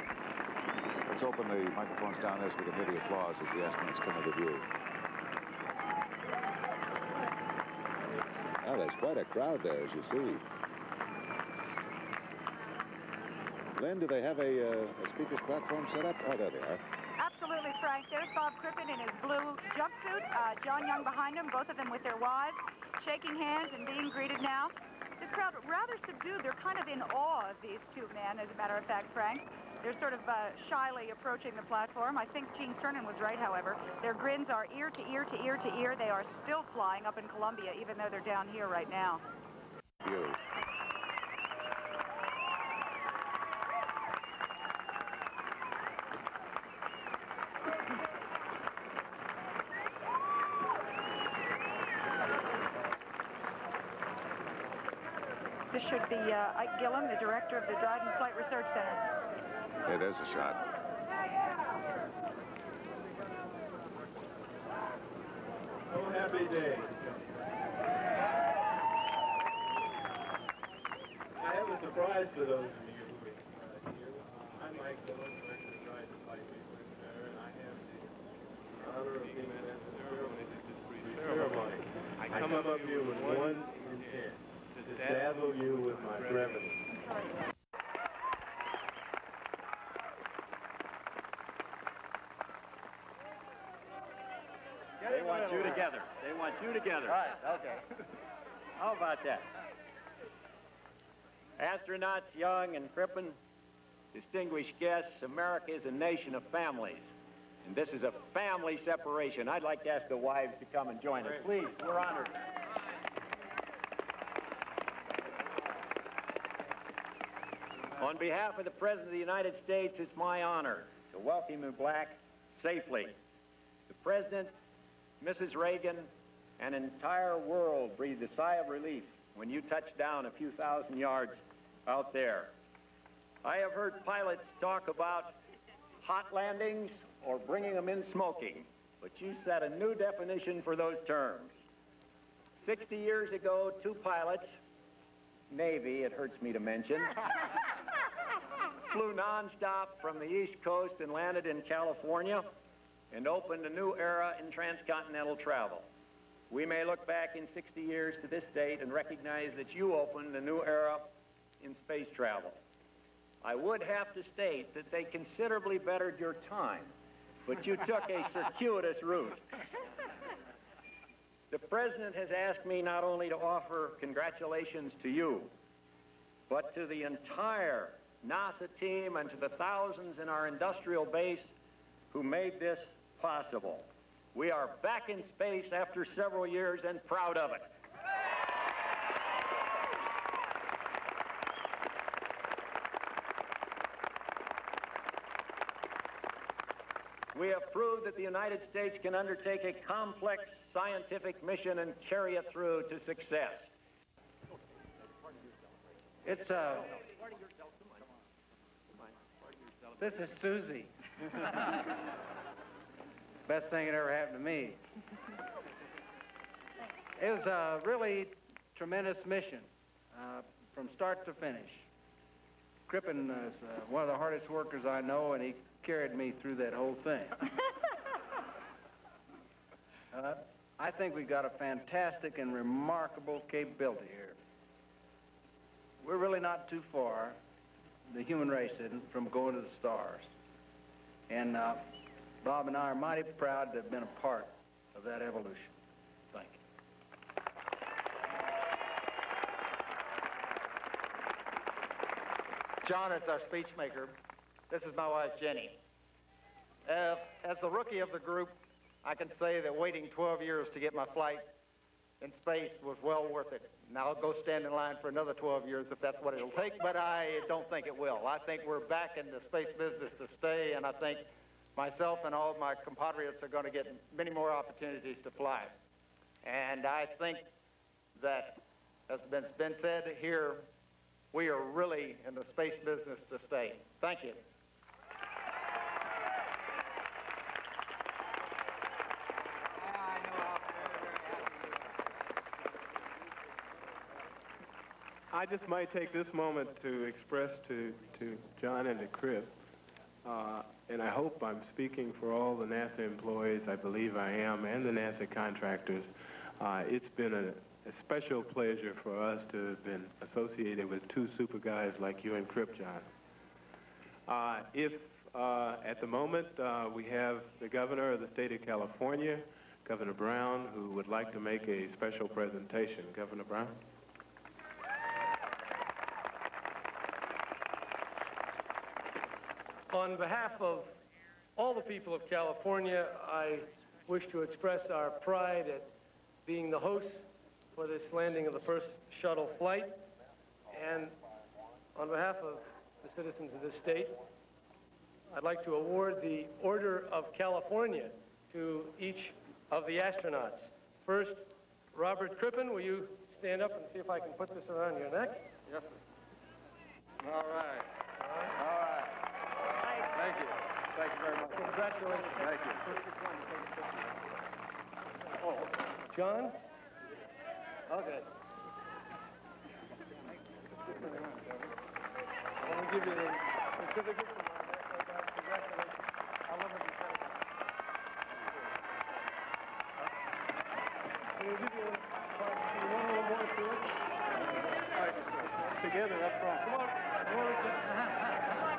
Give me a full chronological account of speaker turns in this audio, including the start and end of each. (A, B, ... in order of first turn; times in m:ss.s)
0:01.1-0:04.7 A
0:08.6-0:10.4 A
0:13.8-0:16.8 A
0:17.2-0:39.2 B
0:40.0-0:40.4 A
0:55.7-0:59.0 B
0:59.8-1:00.6 A
1:05.9-1:07.2 C
1:11.4-1:18.2 C
1:18.7-1:26.8 C
1:35.0-1:37.7 D
1:35.1-1:35.8 E
1:37.1-1:37.6 E
1:38.8-1:39.4 D
1:41.6-1:43.4 D
1:44.1-1:47.1 D
1:47.6-1:52.4 D
1:58.0-2:03.2 D
2:03.9-2:04.5 D
2:05.2-2:12.5 D
2:13.4-2:15.3 D
2:16.0-2:21.5 D
2:22.6-2:24.5 D
2:25.5-2:27.2 D
2:28.9-2:32.4 D
2:33.1-2:35.9 D
2:36.5-2:42.6 D
2:43.4-2:46.9 D
2:47.4-2:49.4 D
2:51.5-2:55.5 D
2:56.5-3:01.5 D
3:02.1-3:07.6 D
3:17.3-3:23.7 D
3:26.2-3:26.9 E
3:30.0-3:30.9 E
3:33.4-3:34.8 E
3:37.2-3:41.8 E
3:42.9-3:47.5 E
3:50.1-3:54.4 E
3:56.0-3:57.4 E
3:58.1-4:00.3 E
4:01.3-4:01.8 E
4:02.4-4:05.7 E
4:06.3-4:06.6 E
4:12.8-4:14.1 F
4:14.7-4:15.8 F
4:16.8-4:21.5 F
4:22.2-4:35.7 F
4:36.4-4:37.4 F
4:38.2-4:40.6 F
4:41.3-4:44.4 F
4:55.3-4:59.5 C
5:00.2-5:13.1 C
5:14.3-5:23.7 C
5:29.9-5:30.9 G
5:31.6-5:35.9 G
5:36.4-5:37.2 G
5:37.7-5:39.9 G
5:40.7-5:41.1 G
5:42.0-5:44.1 G
5:45.3-5:51.4 G
5:51.9-5:55.4 G
6:01.5-6:02.4 G
6:06.1-6:06.5 G
6:12.6-6:17.3 G
6:21.4-6:23.9 G
6:25.9-6:26.6 C